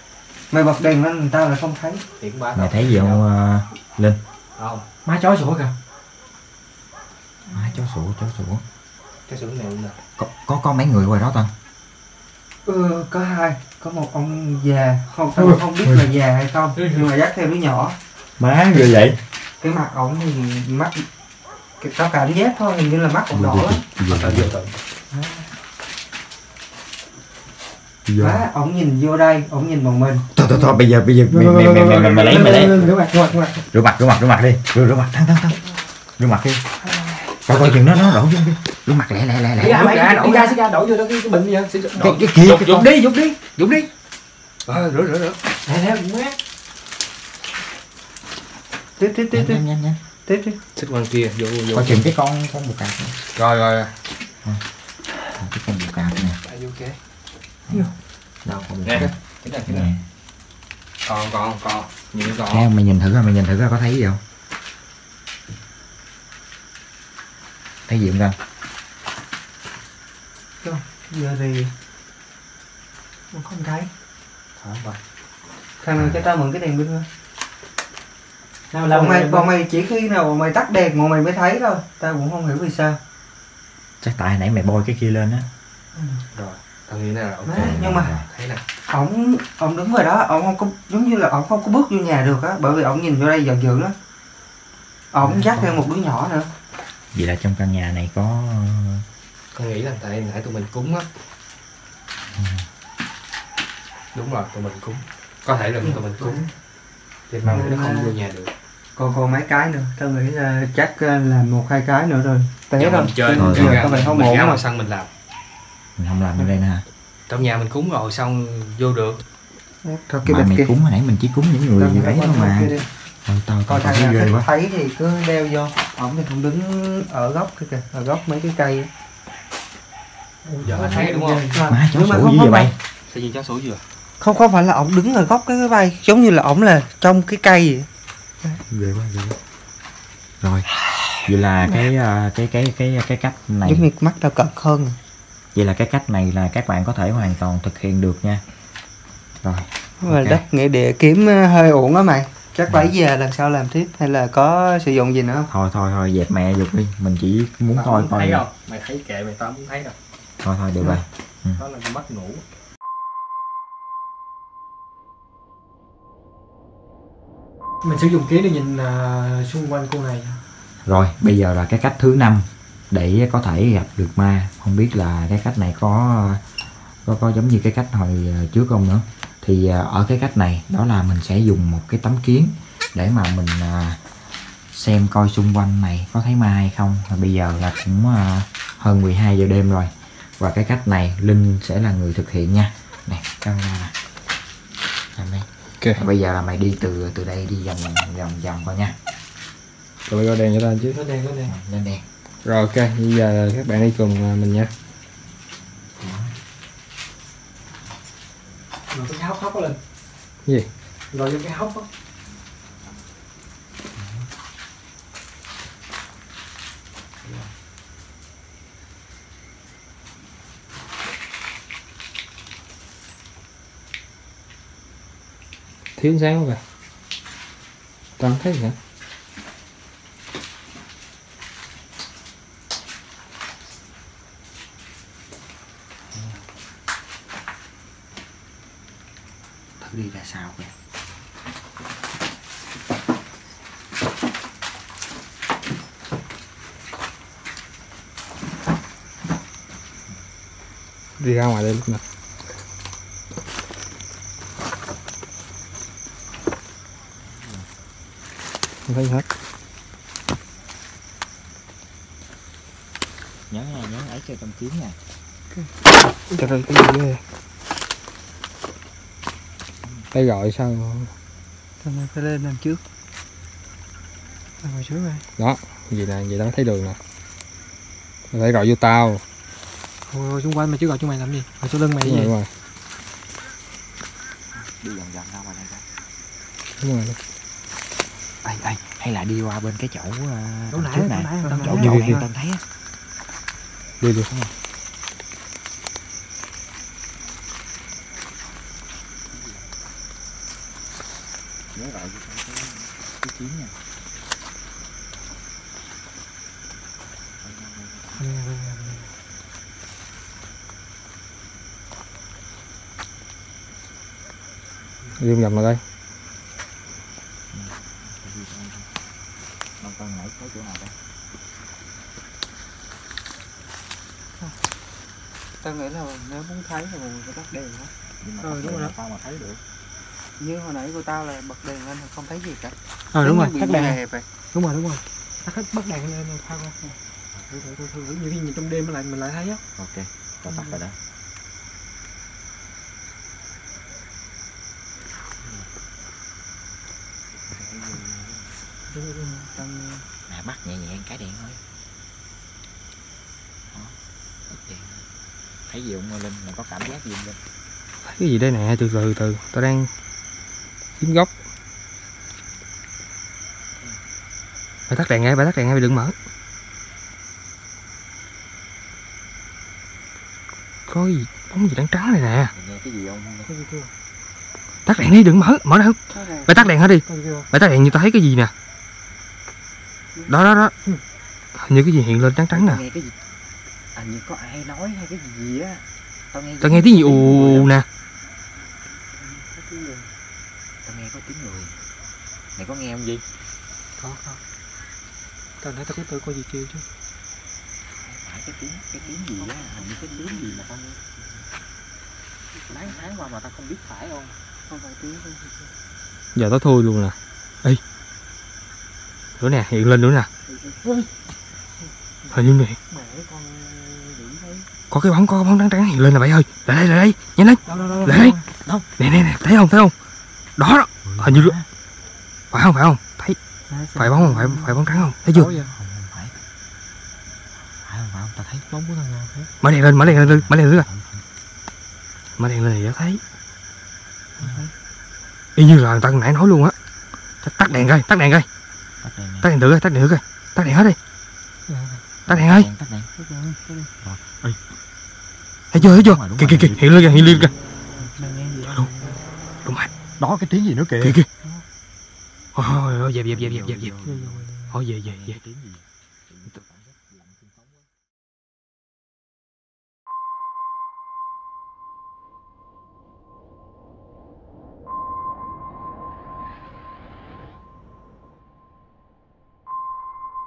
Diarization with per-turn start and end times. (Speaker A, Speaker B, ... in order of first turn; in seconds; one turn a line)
Speaker A: 0.5-2.0
Speaker B: 2.2-3.2
Speaker C: 2.6-4.2
Speaker B: 4.6-4.8
Speaker D: 5.0-5.8
Speaker C: 7.5-8.6
Speaker B: 9.3-10.0
Speaker C: 10.2-11.5
Speaker A: 12.7-18.0
Speaker C: 15.4-16.1
Speaker B: 16.8-17.1
Speaker C: 18.4-19.2
Speaker A: 19.6-21.1
Speaker A: 21.8-23.8
Speaker C: 23.3-24.5
Speaker B: 24.1-24.8
Speaker A: 25.1-25.5
Speaker C: 28.1-28.4
Speaker A: 28.2-30.3
Speaker C: 30.3-32.9
Speaker D: 31.3-33.5
Speaker B: 31.9-32.9
Speaker A: 32.5-33.4
Speaker C: 33.7-35.6
Speaker C: 36.2-36.6
Speaker B: 36.8-38.0
Speaker C: 37.5-39.8
Speaker B: 39.6-40.6
Speaker D: 39.6-42.0
Speaker B: 41.7-43.9
Speaker C: 42.0-43.0
Speaker B: 44.6-45.4
Speaker D: 45.6-46.4
Speaker A: 49.0-49.6
Speaker C: 49.3-50.0
Speaker A: 50.3-50.6
Speaker B: 50.8-52.1
Speaker C: 51.7-53.2
Speaker B: 53.4-54.0
Speaker C: 55.4-56.4
Speaker B: 56.4-57.0
Speaker C: 58.4-59.1
Speaker B: 58.8-59.9
Speaker C: 59.6-60.0
Speaker B: 61.0-62.7
Speaker C: 62.5-64.2
Speaker C: 67.9-68.4
Speaker A: 70.6-71.7
Speaker A: 73.3-73.9
Speaker B: 74.6-75.0
Speaker A: 75.8-77.1
Speaker C: 76.0-76.3
Speaker D: 78.7-79.5
Speaker A: 78.9-83.0
Speaker C: 84.0-85.5
Speaker A: 86.0-86.2
Speaker B: 86.3-88.6
Speaker A: 87.5-88.2
Speaker C: 87.6-88.3
Speaker A: 88.9-93.9
Speaker A: 95.1-96.5
Speaker C: 95.2-95.8
Speaker C: 97.1-99.0
Speaker B: 99.5-101.1
Speaker C: 102.3-102.6
Speaker B: 104.1-106.4
Speaker A: 105.9-106.5
Speaker B: 107.3-108.5
Speaker A: 107.5-108.2
Speaker A: 109.0-114.6
Speaker B: 112.8-115.1
Speaker C: 113.3-113.8
Speaker C: 116.0-116.8
Speaker B: 117.3-119.2
Speaker A: 119.8-120.7
Speaker C: 120.2-122.7
Speaker A: 121.8-122.9
Speaker C: 123.3-124.5
Speaker A: 123.7-128.9
Speaker D: 130.4-131.6
Speaker B: 130.7-131.5
Speaker A: 131.0-132.7
Speaker C: 131.7-132.8
Speaker B: 133.1-133.8
Speaker A: 134.2-137.9
Speaker C: 138.6-139.4
Speaker C: 140.4-140.7
Speaker C: 141.2-143.9
Speaker A: 143.7-145.0
Speaker C: 145.6-148.4
Speaker C: 149.4-150.4
Speaker A: 150.0-155.5
Speaker C: 155.5-158.5
Speaker B: 157.8-159.9
Speaker C: 160.4-161.6
Speaker B: 161.6-162.4
Speaker D: 167.8-170.4
Speaker C: 170.9-176.4
Speaker C: 177.1-184.0
Speaker C: 184.7-193.9
Speaker C: 195.1-198.9
Speaker B: 200.1-201.0
Speaker D: 200.9-201.5
Speaker C: 201.5-202.0
Speaker B: 202.4-204.7
Speaker C: 206.0-206.4
Speaker D: 208.9-209.8
Speaker D: 211.1-211.9
Speaker C: 214.0-214.3
Speaker C: 217.2-217.5
Speaker B: 226.0-226.6
Speaker B: 228.2-228.8
Speaker C: 236.1-236.4
Speaker C: 239.8-240.8
Speaker B: 251.2-252.0
Speaker C: 257.3-257.7
Speaker B: 258.9-259.3
Speaker C: 263.5-265.0
Speaker B: 266.3-267.2
Speaker B: 270.1-271.1
Speaker A: 271.8-272.8
Speaker D: 274.6-275.2
Speaker B: 275.4-277.0
Speaker B: 278.3-279.2
Speaker D: 280.1-282.3
Speaker B: 282.0-282.5
Speaker C: 284.5-285.8
Speaker B: 286.8-287.2
Speaker C: 288.4-292.6
Speaker D: 290.7-292.2
Speaker A: 291.4-292.0
Speaker B: 291.8-292.2
Speaker B: 294.0-294.5
Speaker C: 301.7-303.8
Speaker D: 308.2-309.1
Speaker B: 315.2-315.8
Speaker C: 317.5-318.9
Speaker C: 319.8-320.9
Speaker A: 325.6-327.9
Speaker C: 328.2-329.6
Speaker D: 328.4-328.9
Speaker A: 330.4-334.3
Speaker D: 333.1-334.0
Speaker D: 334.5-337.0
Speaker D: 337.5-339.6
Speaker C: 339.8-341.0
Speaker C: 347.5-348.4
Speaker A: 349.6-350.0
Speaker C: 350.3-351.6
Speaker C: 354.5-355.0
Speaker C: 355.7-357.4
Speaker B: 358.0-359.9
Speaker B: 361.0-361.3
Speaker B: 364.9-366.1
Speaker B: 370.9-372.5
Speaker C: 372.6-373.5
Speaker D: 373.5-373.9
Speaker B: 374.9-378.5
Speaker D: 377.1-377.5
Speaker B: 380.3-380.7
Speaker B: 381.6-382.8
Speaker C: 382.5-383.1
Speaker C: 383.9-387.7
Speaker B: 386.6-387.9
Speaker C: 390.9-391.8
Speaker C: 392.6-393.2
Speaker D: 394.0-394.4
Speaker D: 395.6-396.9
Speaker C: 398.0-401.0
Speaker C: 402.8-404.3
Speaker A: 404.7-405.6
Speaker B: 406.4-407.8
Speaker B: 409.4-410.3
Speaker B: 412.3-412.8
Speaker A: 412.9-414.6
Speaker B: 414.9-418.4
Speaker D: 417.7-418.4
Speaker B: 419.0-419.9
Speaker B: 420.6-421.5
Speaker C: 421.1-421.7
Speaker B: 422.5-423.4
Speaker B: 423.9-425.5
Speaker D: 425.3-425.7
Speaker C: 425.6-426.3
Speaker C: 427.8-428.6
Speaker D: 428.7-429.5
Speaker B: 429.6-430.9
Speaker C: 430.0-431.2
Speaker B: 432.4-433.2
Speaker D: 434.4-434.7
Speaker B: 435.6-436.8
Speaker B: 437.4-438.5
Speaker C: 439.0-439.5
Speaker B: 439.4-441.0
Speaker D: 441.7-442.0
Speaker B: 442.3-442.7
Speaker C: 442.3-443.1
Speaker D: 443.2-443.6
Speaker C: 444.0-444.4
Speaker C: 445.7-447.5
Speaker B: 445.7-447.5
Speaker D: 448.0-449.1
Speaker B: 449.6-449.9
Speaker C: 450.2-451.2
Speaker B: 451.0-451.3
Speaker B: 452.6-453.9
Speaker C: 453.3-454.5
Speaker D: 454.0-454.7
Speaker B: 454.7-455.4
Speaker C: 455.1-455.8